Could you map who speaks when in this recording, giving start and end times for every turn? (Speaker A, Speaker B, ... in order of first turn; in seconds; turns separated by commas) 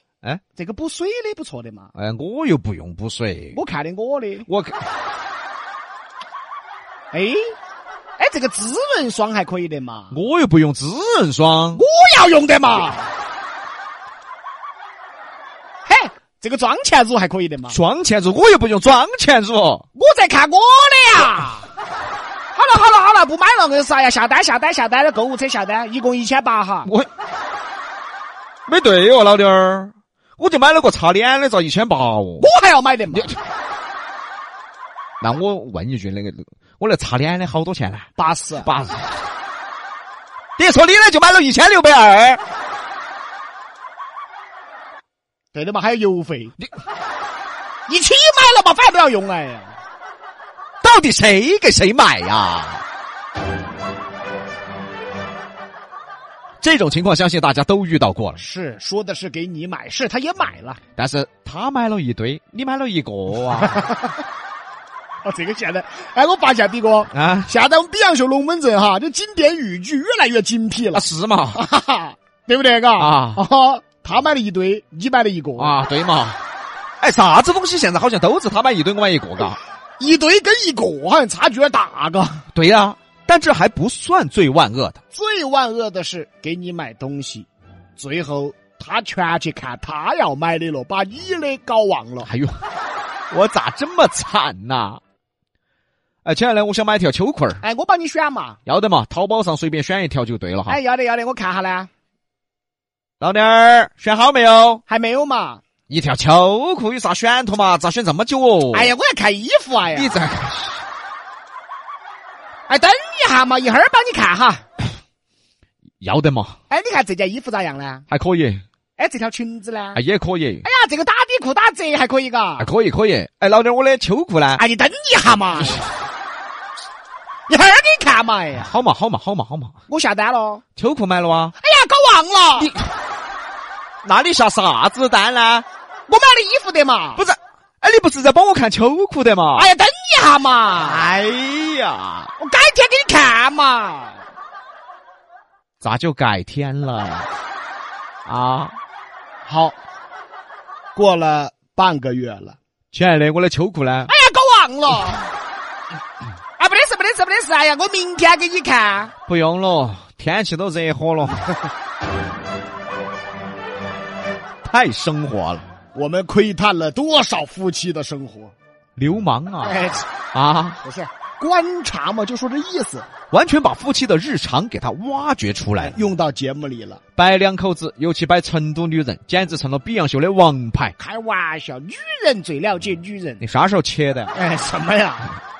Speaker A: 0.5-1.9, Speaker B: 1.9-3.6, Speaker A: 3.5-4.5, Speaker B: 4.5-4.8, Speaker A: 7.1-7.5, Speaker A: 8.2-10.2, Speaker B: 10.1-11.8, Speaker A: 11.7-13.1, Speaker A: 15.8-17.8, Speaker B: 17.7-19.8, Speaker A: 19.9-21.6, Speaker A: 22.5-26.9, Speaker B: 28.7-32.5, Speaker A: 32.4-33.3, Speaker B: 35.2-38.1, Speaker A: 38.1-38.7, Speaker B: 38.6-39.1, Speaker B: 40.6-42.4, Speaker A: 45.5-46.5, Speaker A: 47.9-49.7, Speaker B: 50.8-52.8, Speaker B: 56.6-58.4, Speaker A: 58.4-60.8, Speaker B: 61.0-63.8, Speaker A: 63.7-64.0, Speaker A: 65.2-75.8, Speaker B: 67.1-67.5, Speaker B: 70.9-71.6, Speaker B: 73.0-73.4, Speaker B: 75.6-76.4, Speaker B: 77.0-79.6, Speaker A: 80.0-82.4, Speaker B: 82.5-85.0, Speaker A: 85.1-92.3, Speaker B: 92.2-92.6, Speaker B: 93.3-95.0, Speaker B: 96.2-97.6, Speaker A: 97.6-98.6, Speaker B: 98.7-100.8, Speaker A: 100.7-101.9, Speaker B: 103.2-104.8, Speaker A: 104.9-105.6, Speaker B: 105.9-108.9, Speaker A: 108.7-110.2, Speaker B: 109.9-110.8, Speaker A: 112.7-114.6, Speaker B: 116.0-116.5, Speaker A: 116.7-118.0, Speaker B: 118.1-118.6, Speaker A: 119.0-120.0, Speaker B: 119.9-120.6, Speaker A: 120.6-122.7, Speaker B: 122.6-124.6, Speaker A: 124.5-125.9, Speaker A: 127.5-128.7, Speaker B: 128.5-129.7, Speaker A: 129.9-130.6, Speaker B: 130.8-131.5, Speaker A: 131.6-132.7, Speaker B: 132.6-132.9, Speaker B: 134.0-135.6, Speaker A: 136.1-137.2, Speaker B: 137.2-139.7, Speaker A: 139.5-141.2, Speaker B: 140.8-142.3, Speaker A: 142.4-144.2, Speaker B: 145.8-147.3, Speaker B: 148.2-148.7, Speaker A: 149.4-149.8, Speaker A: 150.9-152.6, Speaker B: 152.9-154.1, Speaker A: 154.1-155.3, Speaker A: 156.6-159.1, Speaker B: 159.2-161.5, Speaker B: 164.6-165.7, Speaker A: 165.9-168.5, Speaker B: 169.0-169.8, Speaker A: 169.6-170.1, Speaker B: 170.3-170.8, Speaker A: 170.8-173.1, Speaker B: 173.3-176.0, Speaker A: 175.8-177.0, Speaker B: 177.2-180.9, Speaker A: 181.0-183.4, Speaker B: 183.4-184.3, Speaker A: 184.3-185.3